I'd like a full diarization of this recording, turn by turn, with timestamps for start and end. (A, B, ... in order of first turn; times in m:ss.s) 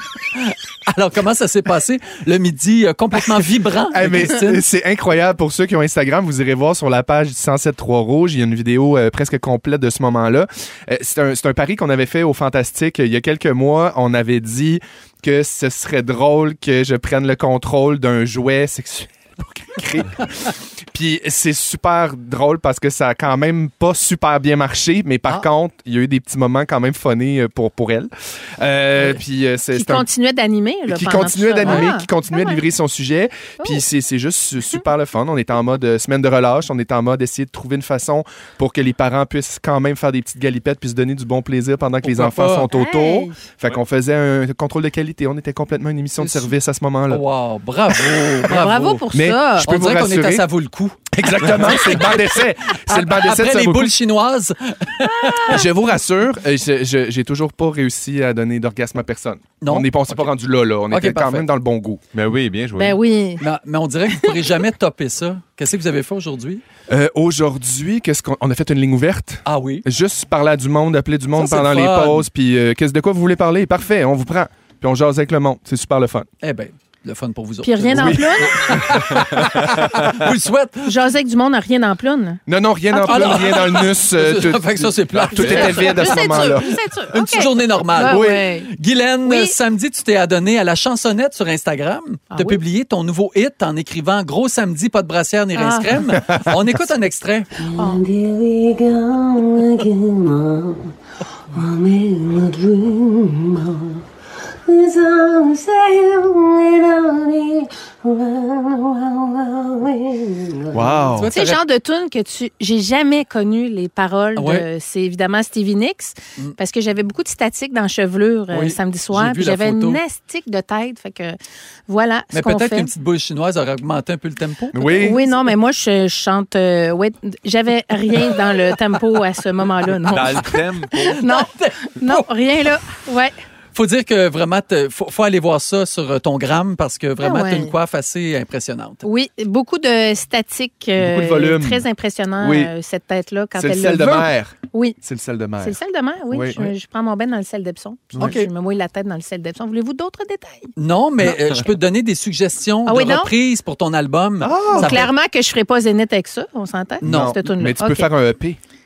0:00.4-0:04.6 A
0:03.9-0:30.1 B
0:29.7-0:32.6 C
0:30.9-0:47.2 B
0:42.0-0:42.7 A
0:42.7-0:43.3 C
0:46.2-0:46.5 A
0:47.1-0:49.0 A
0:48.4-0:49.7 C
0:49.1-0:50.4 B
0:49.6-0:55.6 A
0:51.2-0:53.9 B
0:55.4-1:02.0 B
0:59.6-0:59.9 A
1:00.9-1:01.5 A
1:02.1-1:03.0 D
1:02.8-1:03.4 C
1:03.4-1:06.6 A
1:06.9-1:16.3 B
1:09.4-1:09.8 A
1:11.3-1:12.3 A
1:16.4-1:21.0 A
1:17.6-1:18.9 C
1:17.9-1:19.2 B
1:20.8-1:22.4 C
1:22.5-1:26.7 B
1:22.9-1:23.8 C
1:23.0-1:37.5 A
1:25.2-1:25.7 D
1:25.4-1:28.7 C
1:29.2-1:29.6 C
1:32.3-1:32.6 C
1:35.5-1:36.0 C
1:37.6-1:40.8 E
1:37.8-1:38.0 C
1:41.5-1:44.0 E
1:44.7-1:50.8 E
1:50.7-1:51.3 B
1:51.1-1:51.6 A
1:51.3-2:01.4 C
1:54.4-1:54.7 A
1:58.5-2:00.0 A
2:01.9-2:02.9 C
2:02.3-2:05.2 A
2:04.7-2:05.2 B
2:04.9-2:10.6 C
2:10.0-2:11.2 D
2:10.4-2:12.3 A
2:11.2-2:13.3 C
2:13.7-2:19.0 A
2:17.2-2:17.7 C
2:19.0-2:25.0 C
2:21.0-2:21.8 B
2:22.4-2:22.7 B
2:23.5-2:25.8 B
2:25.6-2:30.7 C
2:26.3-2:26.7 B
2:28.2-2:28.5 A
2:30.8-2:35.1 A
2:32.8-2:33.3 C
2:34.4-2:35.1 B
2:34.7-2:38.1 C
2:37.0-2:38.6 B
2:37.0-2:37.3 A